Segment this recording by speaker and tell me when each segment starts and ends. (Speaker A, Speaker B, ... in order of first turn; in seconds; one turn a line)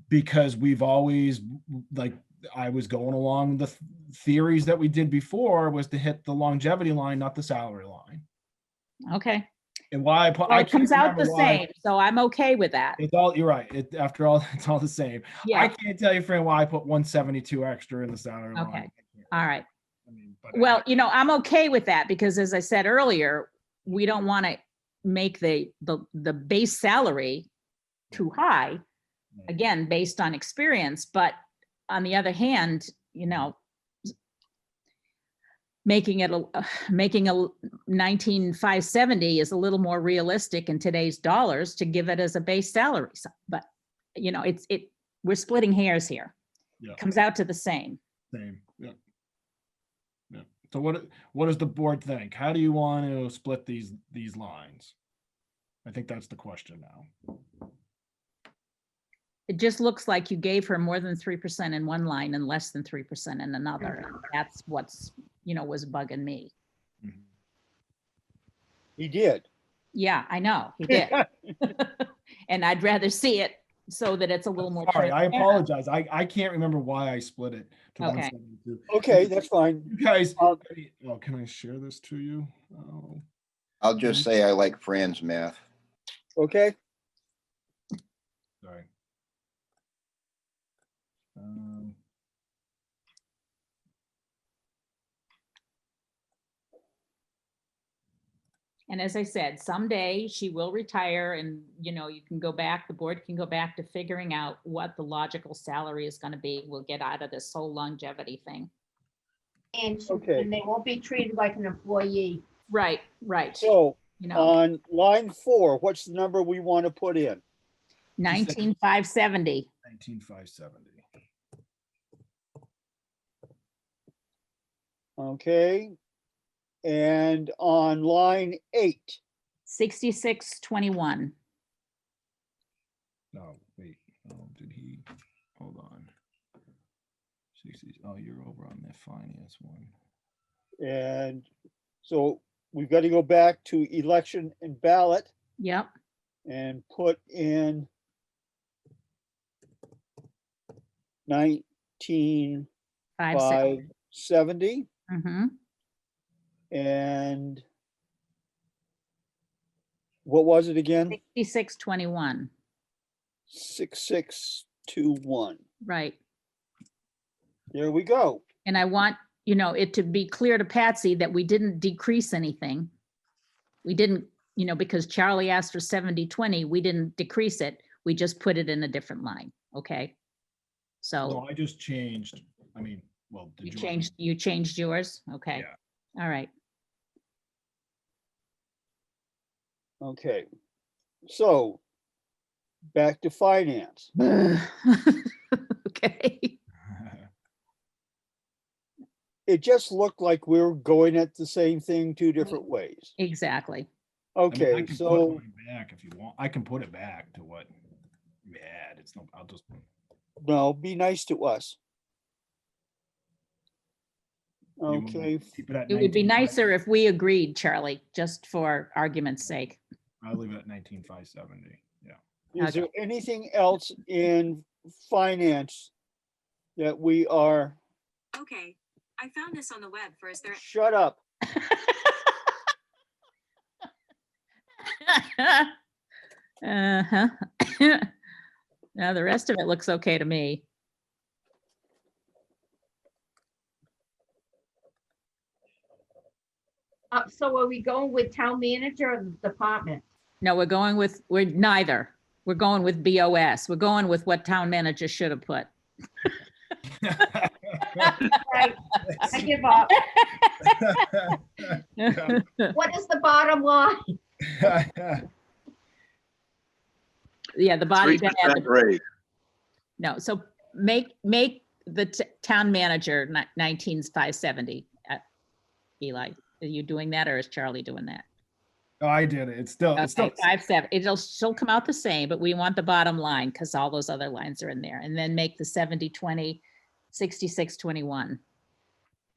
Speaker A: 0.1-8.2
Speaker B: 9.1-9.5
Speaker A: 9.9-11.6
Speaker B: 10.5-13.0
Speaker A: 13.0-19.4
Speaker B: 15.4-15.7
Speaker B: 18.6-19.6
Speaker A: 20.1-20.8
Speaker B: 20.5-27.5
Speaker B: 28.1-28.8
Speaker B: 29.5-31.4
Speaker B: 31.9-33.6
Speaker B: 35.9-43.6
Speaker B: 44.2-46.3
Speaker B: 47.0-48.0
Speaker A: 48.3-48.9
Speaker A: 50.3-54.9
Speaker A: 55.9-57.1
Speaker B: 59.5-66.5
Speaker C: 69.0-69.5
Speaker B: 69.9-75.6
Speaker C: 70.9-71.2
Speaker A: 74.6-79.3
Speaker B: 78.0-78.3
Speaker C: 78.9-80.6
Speaker A: 79.9-83.2
Speaker D: 83.8-85.6
Speaker C: 86.4-86.8
Speaker A: 91.4-92.0
Speaker B: 98.9-108.7
Speaker E: 109.8-112.4
Speaker C: 110.1-110.5
Speaker B: 112.7-114.6
Speaker C: 113.6-117.4
Speaker B: 118.2-119.7
Speaker A: 118.3-118.7
Speaker A: 119.8-121.0
Speaker C: 125.2-125.9
Speaker C: 126.8-129.2
Speaker B: 129.7-131.3
Speaker A: 133.3-135.0
Speaker A: 135.6-136.1
Speaker A: 137.6-139.9
Speaker C: 140.8-141.5
Speaker C: 142.0-145.3
Speaker B: 145.6-145.9
Speaker C: 146.5-147.9
Speaker C: 151.3-152.7
Speaker B: 153.2-153.8
Speaker C: 153.3-154.9
Speaker B: 155.1-155.5
Speaker C: 156.7-157.6
Speaker C: 160.2-161.2
Speaker B: 161.1-162.5
Speaker C: 163.5-165.6
Speaker B: 165.8-166.2
Speaker C: 167.7-168.4
Speaker B: 168.7-172.9
Speaker B: 173.8-180.2
Speaker B: 181.0-181.4
Speaker A: 181.2-184.1
Speaker B: 183.6-185.7
Speaker B: 186.2-186.5
Speaker C: 190.0-190.5
Speaker C: 191.3-191.8
Speaker C: 192.9-194.1
Speaker B: 194.2-196.6
Speaker A: 196.9-197.3
Speaker C: 199.5-203.1
Speaker B: 203.2-203.9
Speaker C: 204.4-205.4
Speaker A: 204.5-207.7
Speaker A: 208.5-209.8
Speaker C: 210.4-211.8
Speaker C: 214.8-215.4
Speaker A: 214.9-216.6
Speaker B: 215.9-219.8
Speaker A: 220.2-222.2
Speaker C: 222.6-225.9
Speaker B: 222.6-222.9
Speaker C: 226.8-227.8
Speaker F: 228.4-230.6
Speaker C: 230.5-231.2
Speaker B: 231.5-232.3
Speaker B: 234.9-235.7
Speaker B: 236.6-238.1
Speaker B: 239.0-240.6
Speaker E: 247.1-250.0
Speaker B: 250.4-255.7
Speaker A: 257.0-258.2
Speaker B: 257.9-258.4
Speaker E: 258.3-260.0
Speaker B: 259.9-261.3
Speaker A: 260.8-262.4
Speaker B: 262.0-262.7
Speaker E: 262.7-264.2
Speaker A: 264.4-265.3
Speaker B: 267.6-268.7
Speaker D: 268.0-269.0
Speaker B: 270.0-275.2
Speaker B: 276.0-278.2
Speaker A: 279.0-280.5
Speaker B: 280.0-288.4